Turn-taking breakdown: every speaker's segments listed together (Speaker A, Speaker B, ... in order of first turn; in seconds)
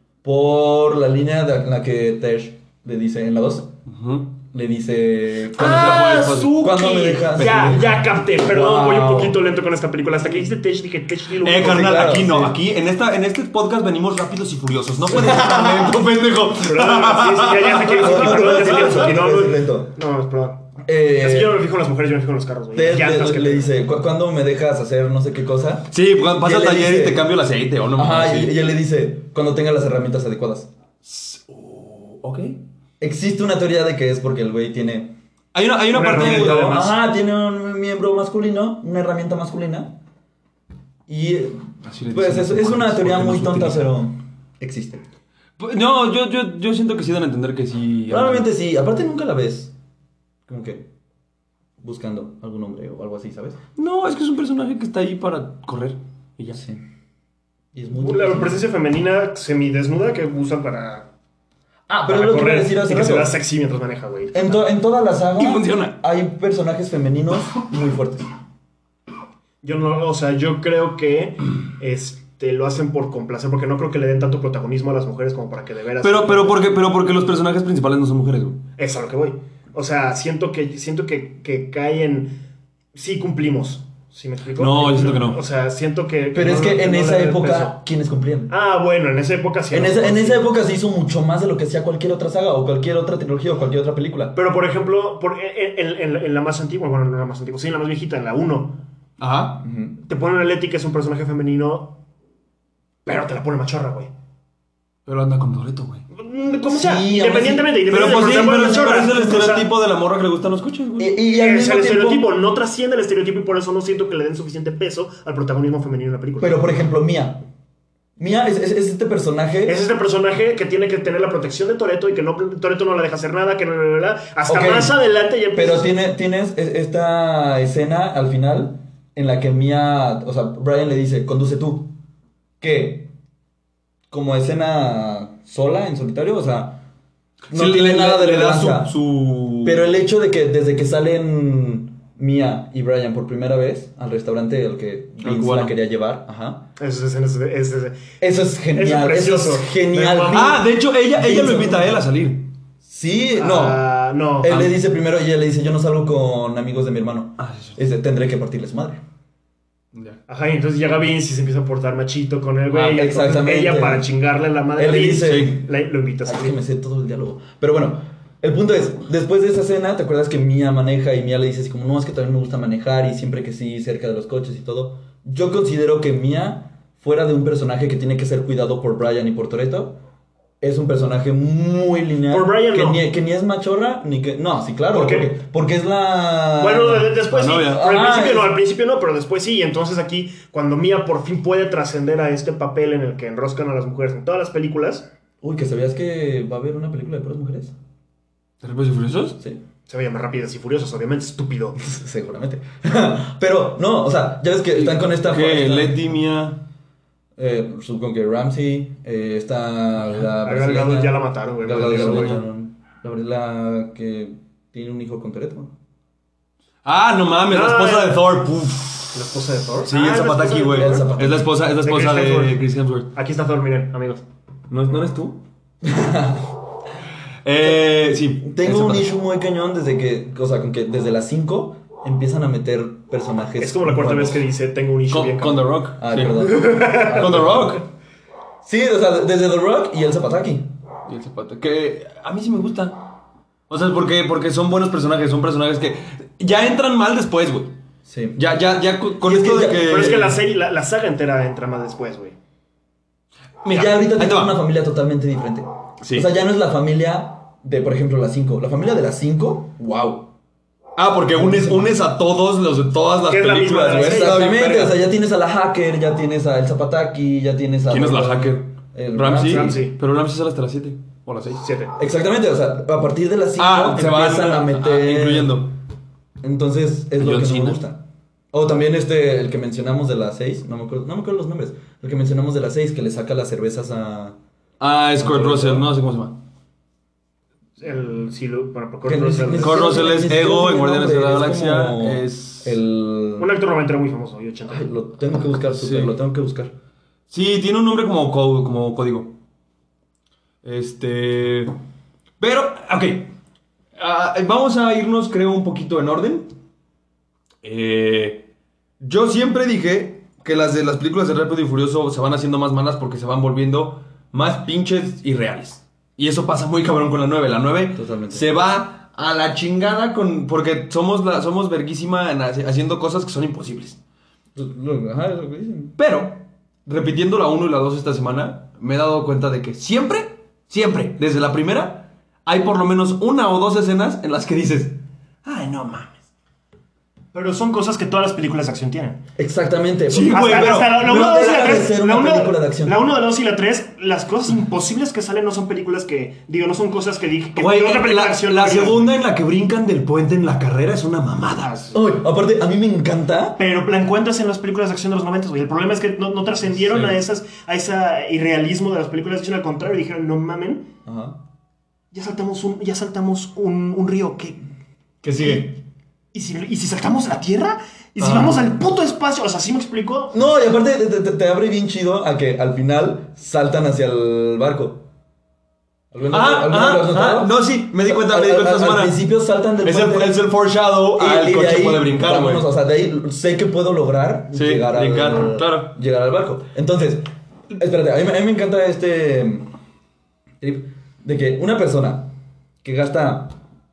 Speaker A: 0.2-3.7, 4.5-9.4, 11.6-12.6, 15.1-15.9, 17.9-19.9, 20.8-21.6, 22.7-27.3, 27.9-30.7, 33.0-35.1, 36.0-39.9, 41.1-45.0, 48.1-49.7, 50.5-50.9, 51.8-53.6, 56.5-56.8, 57.7-58.6, 61.9-63.3, 64.3-68.3, 86.3-88.5, 89.7-94.3, 99.6-100.0, 106.7-107.7, 111.0-112.3, 116.4-117.4, 118.2-119.8, 124.5-125.0, 125.5-131.9, 132.6-133.1, 134.1-136.8, 137.5-138.9, 139.6-146.7, 148.2-150.6, 151.1-152.1, 152.8-153.8, 154.4-159.0, 162.7-164.1, 164.8-165.7, 166.2-180.0, 180.6-188.5, 195.4-197.7, 201.8-206.1, 207.4-215.7, 220.7-221.5, 225.8-226.5, 228.4-234.4, 236.0-237.8, 238.6-240.7, 248.0-248.4, 249.2-250.2, 253.7-260.3, 261.3-261.9, 263.9-269.8, 272.0-275.7, 276.4-284.4, 285.2-285.9, 289.0-293.5, 294.7-296.7, 317.9-318.5, 324.5-325.9, 339.4-343.0, 351.9-353.6, 361.0-361.4, 365.3-365.7, 370.3-375.0, 376.1-380.4, 381.1-389.7, 390.6-392.3, 392.8-393.6
Speaker B: 3.9-4.3, 5.5-6.7, 7.4-7.8, 11.4-19.1, 25.9-28.6, 31.0-32.6, 35.5-36.9, 41.8-43.9, 45.6-48.5, 53.8-56.6, 65.4-65.9, 76.0-78.6, 84.6-85.4, 99.2-99.6, 105.0-106.0, 107.9-111.2, 137.5-139.8, 145.2-145.7, 150.3-152.5, 157.4-157.8, 159.9-160.2, 165.2-165.6, 187.3-187.8, 198.6-199.4, 204.7-206.6, 211.7-212.4, 216.8-219.2, 219.9-223.1, 224.7-225.4, 227.4-229.1, 235.1-237.8, 241.1-243.0, 243.7-247.7, 248.3-250.4, 253.6-254.6, 256.0-256.3, 260.9-265.0, 267.9-271.6, 273.6-275.7, 277.2-277.8, 284.8-286.4, 289.6-292.8, 295.7-296.1, 297.3-299.3, 300.6-301.7, 302.4-303.3, 304.0-306.5, 307.6-308.4, 309.0-324.0, 326.0-336.1, 340.1-341.4, 347.6-351.9, 376.3-379.2, 379.8-382.6, 384.5-385.9
Speaker C: 5.5-12.3, 16.6-20.6, 21.2-23.8, 35.9-36.9, 58.0-61.1, 62.1-64.6, 69.6-76.6, 78.8-82.3, 82.9-87.8, 88.5-90.4, 94.3-98.8, 100.0-102.0, 103.0-104.1, 106.1-109.7, 111.3-116.6, 119.6-125.9, 146.8-148.0, 148.7-150.6, 153.4-154.7, 160.3-166.6, 182.3-183.0, 184.9-185.3, 186.6-195.1, 199.9-201.8, 210.4-212.4, 217.5-218.2, 219.1-221.0, 221.8-224.2, 233.6-235.7, 236.4-237.2, 249.7-252.3, 263.3-264.6, 269.4-269.9, 271.5-271.9, 287.8-290.0, 293.4-294.9, 337.3-339.2, 340.3-349.1, 353.6-360.9, 362.1-364.6, 365.4-365.8, 366.3-370.4